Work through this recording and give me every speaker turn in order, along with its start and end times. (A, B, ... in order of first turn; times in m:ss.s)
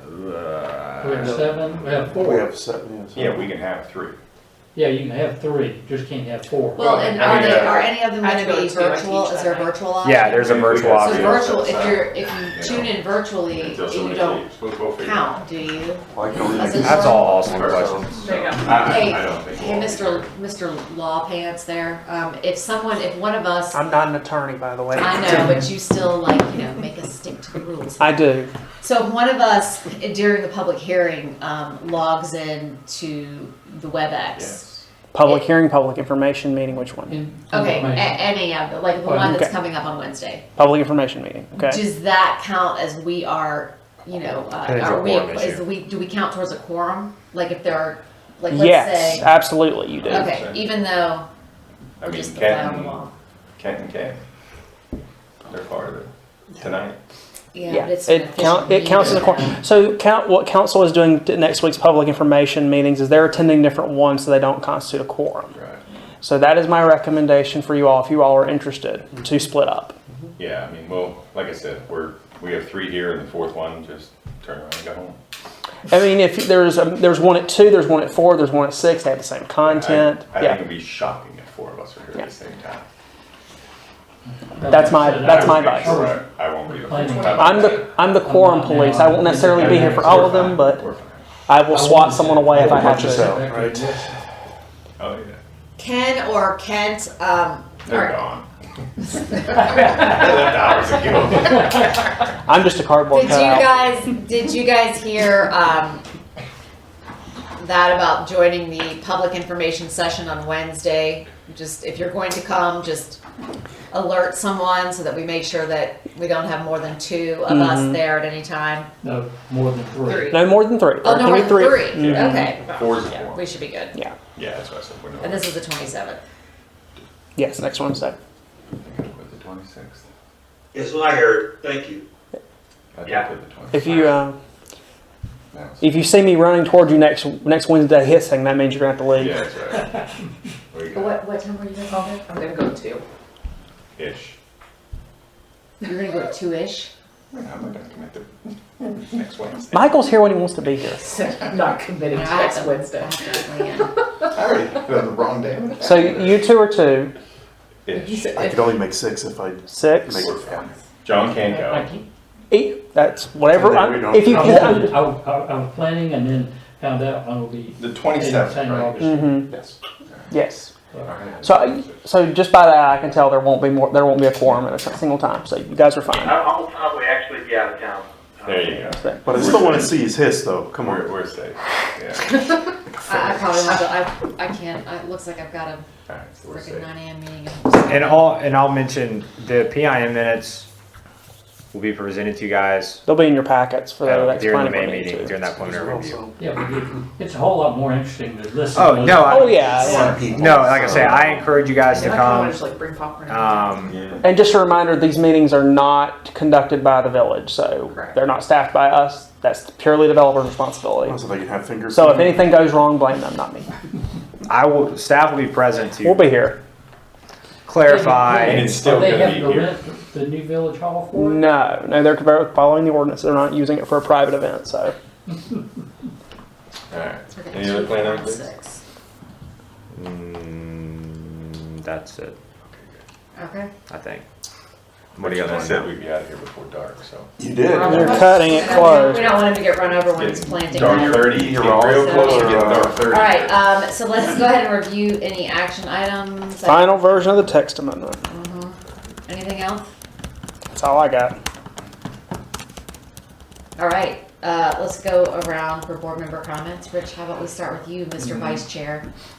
0:01.0-0:02.5 A
0:01.6-0:02.0 B
0:02.1-0:03.5 C
0:03.1-0:04.2 B
0:04.7-0:07.5 A
0:06.8-0:14.4 D
0:07.2-0:07.8 E
0:07.3-0:09.8 F
0:10.0-0:11.5 E
0:10.4-0:15.3 B
0:15.0-0:17.4 D
0:16.1-0:18.2 C
0:16.7-0:18.3 E
0:17.5-0:20.2 B
0:18.2-0:18.8 F
0:18.6-0:23.8 D
0:23.7-0:25.5 G
0:24.9-0:28.2 D
0:28.0-0:28.5 G
0:28.8-0:34.7 D
0:34.3-0:34.8 B
0:35.1-0:37.2 G
0:35.2-0:35.5 D
0:37.1-0:38.4 A
0:37.5-0:40.4 D
0:39.0-0:39.4 A
0:39.2-0:39.5 G
0:40.6-0:41.8 G
0:41.6-0:49.3 D
0:44.6-0:45.6 E
0:48.5-0:50.3 G
0:50.0-0:50.7 B
0:50.1-0:51.3 D
0:52.0-0:53.0 B
0:52.0-0:53.1 D
0:53.6-0:54.2 B
0:55.5-0:57.0 B
0:57.5-0:59.6 D
0:57.7-1:05.5 G
1:05.5-1:05.8 B
1:06.2-1:10.0 G
1:10.4-1:15.2 B
1:15.9-1:20.6 G
1:19.6-1:22.8 B
1:24.6-1:30.6 A
1:24.6-1:26.0 G
1:25.1-1:28.0 B
1:27.2-1:27.6 F
1:27.4-1:30.8 G
1:29.4-1:31.2 B
1:31.5-1:33.4 G
1:31.7-1:34.0 A
1:32.5-1:34.0 C
1:35.0-1:35.4 B
1:35.8-1:38.2 D
1:37.8-1:38.4 B
1:39.2-1:41.9 B
1:42.5-1:43.8 G
1:43.1-1:46.0 D
1:47.6-1:53.2 D
1:53.9-1:58.9 D
1:57.5-1:58.0 G
1:59.0-2:00.3 A
2:00.1-2:00.3 D
2:00.3-2:02.5 G
2:01.0-2:04.0 D
2:01.9-2:03.5 B
2:04.3-2:05.5 B
2:05.2-2:06.2 D
2:07.4-2:08.2 G
2:08.7-2:10.0 B
2:10.7-2:12.0 H
2:12.9-2:14.1 B
2:13.7-2:14.4 G
2:15.5-2:16.1 B
2:15.8-2:19.4 G
2:19.1-2:19.9 B
2:20.7-2:21.2 B
2:20.9-2:22.2 D
2:21.9-2:23.0 F
2:24.0-2:24.3 B
2:25.8-2:26.9 D
2:27.3-2:30.0 B
2:29.7-2:31.1 G
2:31.0-2:33.4 F
2:32.1-2:33.9 D
2:34.3-2:36.5 B
2:35.8-2:37.1 G
2:37.8-2:38.5 B
2:37.9-2:38.9 F
2:38.3-2:40.7 C
2:39.7-2:40.2 G
2:40.1-2:41.8 B
2:41.4-2:42.0 A
2:42.5-2:45.0 G
2:43.5-2:44.9 C
2:44.3-2:49.5 A
2:47.8-2:49.2 B
2:49.0-2:49.5 G
2:49.4-2:49.7 C
2:50.3-2:50.7 G
2:51.0-2:52.0 B
2:51.4-2:56.4 G
2:56.2-2:58.7 H
2:58.4-3:00.2 B
2:58.9-2:59.2 G
2:59.2-3:01.1 C
3:00.7-3:02.4 B
3:03.0-3:05.9 D
3:06.1-3:06.9 B
3:06.5-3:08.4 D
3:07.9-3:10.6 E
3:11.7-3:13.0 E
3:13.0-3:15.4 G
3:14.0-3:16.2 E
3:15.5-3:16.3 C
3:16.4-3:19.9 A
3:18.7-3:22.6 E
3:19.3-3:20.1 G
3:19.8-3:20.2 F
3:19.9-3:21.4 C
3:21.9-3:23.8 F
3:23.3-3:24.0 E
3:23.8-3:24.2 B
3:24.2-3:31.2 G
3:27.9-3:28.2 F
3:31.0-3:32.5 C
3:31.9-3:33.7 G
3:34.5-3:36.3 E
3:36.0-3:36.6 G
3:37.7-3:38.8 E
3:37.8-3:41.4 A
3:38.4-3:39.7 B
3:41.1-3:44.9 G
3:46.9-3:48.4 B
3:47.3-3:48.8 D
3:49.9-3:52.4 E
3:52.7-3:53.0 B
3:53.4-3:53.7 D
3:53.9-3:54.2 E
3:55.2-3:55.9 E
3:55.2-3:57.3 B
3:57.4-3:58.3 C
3:57.6-4:07.3 D
3:57.7-3:59.4 F
3:57.8-3:59.4 G
3:59.9-4:03.6 B
4:00.7-4:03.1 C
4:06.6-4:08.2 G
4:08.3-4:09.9 D
4:10.7-4:11.4 G
4:13.8-4:19.0 D